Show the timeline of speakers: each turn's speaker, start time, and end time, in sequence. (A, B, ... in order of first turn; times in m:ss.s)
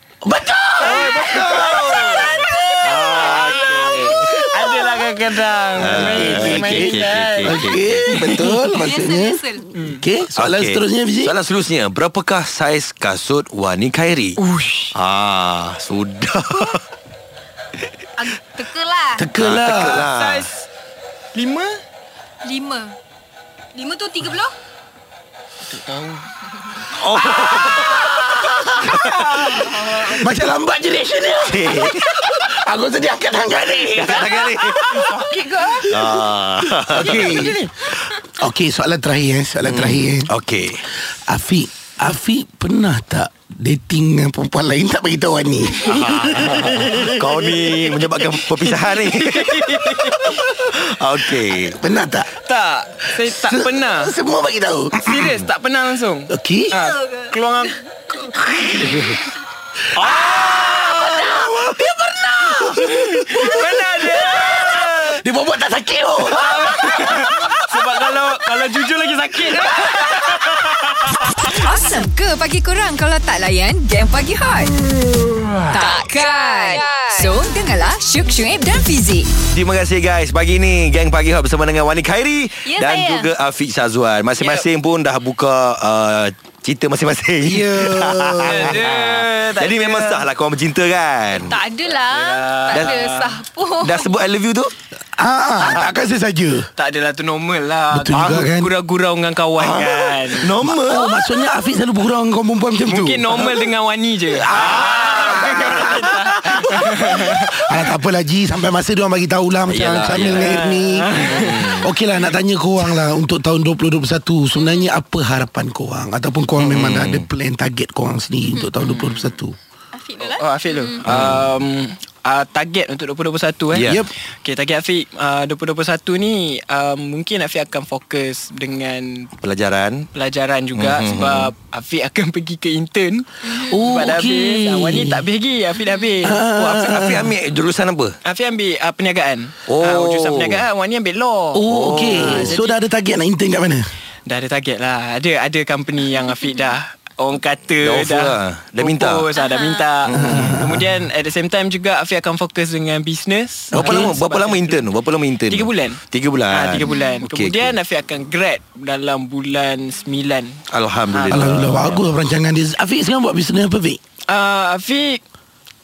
0:00.2-0:02.2 A
0:00.8-0:08.7 B
0:00.8-0:02.5 C
0:02.5-0:05.1 D
0:05.8-0:08.1 C
0:05.8-0:11.3 A
0:08.7-0:09.7 D
0:09.8-0:10.0 B
0:10.4-0:14.4 C
0:14.4-0:14.9 B
0:14.9-0:16.8 C
0:18.2-0:19.3 D
0:19.2-0:20.1 A
0:19.4-0:20.5 C
0:19.9-0:20.7 B
0:21.3-0:21.7 B
0:22.4-0:23.0 D
0:23.8-0:24.5 D
0:25.7-0:26.3 B
0:26.9-0:28.1 C
0:27.3-0:27.7 B
0:27.4-0:28.7 D
0:28.8-0:29.3 C
0:28.8-0:30.3 B
0:30.0-0:36.1 A
0:31.4-0:32.2 C
0:34.0-0:35.0 C
0:34.2-0:35.8 B
0:35.1-0:35.6 D
0:35.8-0:37.2 C
0:36.8-0:40.3 A
0:37.0-0:37.9 B
0:39.6-0:40.8 C
0:41.1-0:46.8 A
0:45.8-0:49.9 C
0:46.1-0:50.6 B
0:50.5-0:51.8 C
0:51.4-0:52.4 A
0:52.4-0:54.1 B
0:53.2-0:55.1 A
0:55.0-0:58.2 B
0:56.3-0:56.8 A
0:57.0-0:57.3 D
0:58.4-0:59.0 A
0:58.8-0:59.2 B
1:00.0-1:07.6 A
1:00.0-1:01.3 B
1:01.0-1:01.4 D
1:02.6-1:05.2 B
1:06.2-1:11.2 B
1:11.5-1:14.7 E
1:15.7-1:19.3 E
1:19.5-1:31.6 C
1:22.6-1:23.3 D
1:24.4-1:24.7 B
1:27.4-1:28.8 A
1:28.5-1:30.3 B
1:31.3-1:34.1 D
1:31.9-1:33.4 B
1:32.7-1:33.0 C
1:33.8-1:34.8 C
1:35.2-1:36.7 A
1:36.8-1:40.5 B
1:37.9-1:38.7 A
1:39.6-1:41.0 C
1:40.6-1:43.3 A
1:42.9-1:47.5 B
1:44.4-1:59.6 A
1:44.6-1:45.0 C
1:49.7-1:50.6 C
1:50.1-1:51.8 B
1:51.2-1:51.9 C
1:56.6-1:57.3 C
1:58.5-1:58.7 D
1:58.8-1:59.4 B
1:59.9-2:01.1 D
2:00.2-2:09.3 B
2:01.0-2:01.4 C
2:03.7-2:04.0 C
2:03.8-2:04.1 A
2:09.4-2:10.1 C
2:10.1-2:17.3 B
2:10.7-2:11.5 C
2:13.4-2:13.8 D
2:13.6-2:15.2 A
2:16.2-2:17.3 A
2:16.8-2:18.2 C
2:18.2-2:22.8 B
2:19.7-2:20.6 C
2:21.5-2:23.9 A
2:21.7-2:22.5 C
2:22.2-2:22.5 D
2:24.3-2:34.9 B
2:27.8-2:29.3 C
2:29.3-2:29.9 D
2:30.0-2:30.6 C
2:30.1-2:30.9 A
2:33.7-2:34.1 A
2:33.8-2:37.8 C
2:35.5-2:41.9 B
2:36.8-2:37.2 D
2:40.7-2:42.1 C
2:41.3-2:44.0 A
2:44.3-2:45.2 B